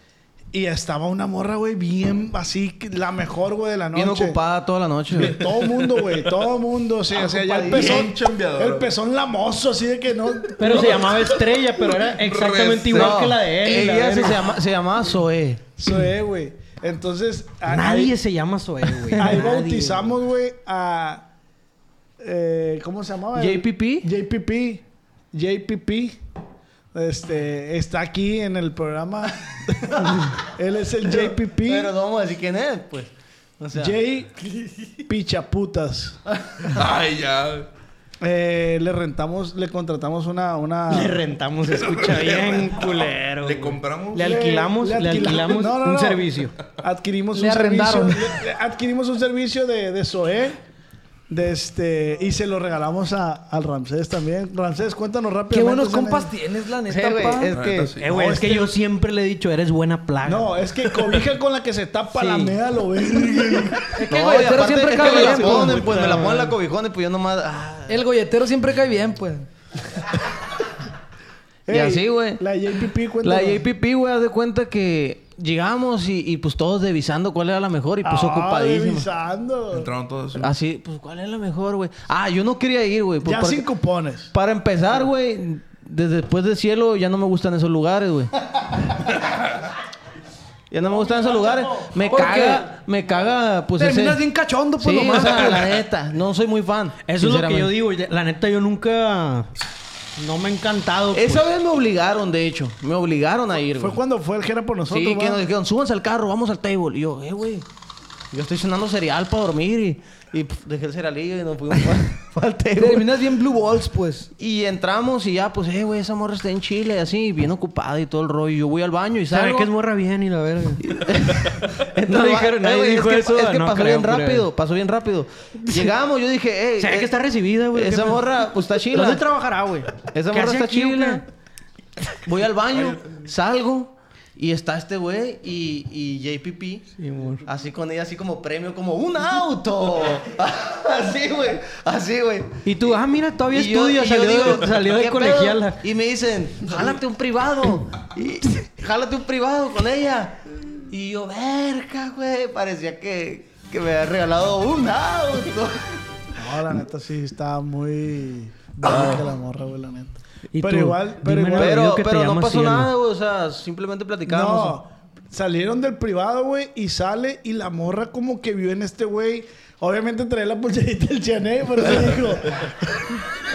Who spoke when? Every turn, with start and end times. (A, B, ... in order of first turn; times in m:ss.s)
0:00.5-0:04.4 A
0:03.9-0:05.4 B
0:05.1-0:11.1 A
0:05.2-0:06.3 C
0:07.3-0:08.9 C
0:10.6-0:14.4 D
0:11.9-0:13.2 C
0:12.9-0:15.6 B
0:15.8-0:18.1 A
0:17.7-0:20.1 D
0:19.2-0:21.3 A
0:22.2-0:26.2 A
0:23.4-0:24.1 B
0:26.9-0:31.9 A
0:31.1-0:34.0 B
0:33.8-0:34.5 A
0:35.1-0:36.2 A
0:36.7-0:37.7 C
0:38.2-0:41.2 A
0:40.9-0:46.6 D
0:41.8-0:44.4 C
0:44.2-0:46.3 A
0:46.8-0:50.6 A
0:47.3-0:48.4 E
0:51.3-0:56.3 A
0:55.5-0:57.5 E
0:56.9-0:57.9 B
0:57.5-0:58.1 C
0:58.0-1:00.6 D
0:58.0-0:58.7 A
1:00.2-1:04.0 A
1:02.2-1:02.5 D
1:04.0-1:05.9 E
1:04.0-1:08.0 B
1:05.2-1:06.5 A
1:07.9-1:09.5 E
1:11.7-1:13.6 A
1:11.7-1:12.4 B
1:13.2-1:19.1 B
1:18.0-1:19.9 A
1:19.7-1:20.5 C
1:20.4-1:23.6 B
1:23.2-1:24.3 A
1:24.3-1:28.3 B
1:30.7-1:34.2 B
1:30.8-1:31.9 A
1:32.0-1:32.7 E
1:33.8-1:35.8 E
1:34.8-1:37.7 B
1:37.1-1:39.5 D
1:40.2-1:41.5 D
1:41.1-1:44.0 B
1:43.8-1:45.4 A
1:44.9-1:47.7 B
1:48.3-1:53.3 B
1:52.8-1:54.3 E
1:54.4-1:59.7 B
1:59.3-2:00.9 D
2:00.8-2:07.2 B
2:02.1-2:04.5 D
2:06.8-2:08.3 D
2:07.7-2:09.3 B
2:08.9-2:11.2 D
2:10.1-2:11.2 B
2:12.2-2:16.9 B
2:17.0-2:17.4 D
2:17.4-2:22.7 B
2:22.6-2:25.8 D
2:23.5-2:36.0 B
2:36.4-2:41.8 A
2:38.8-2:39.2 B
2:40.5-2:42.9 D
2:41.5-2:44.8 B
2:44.3-2:53.1 A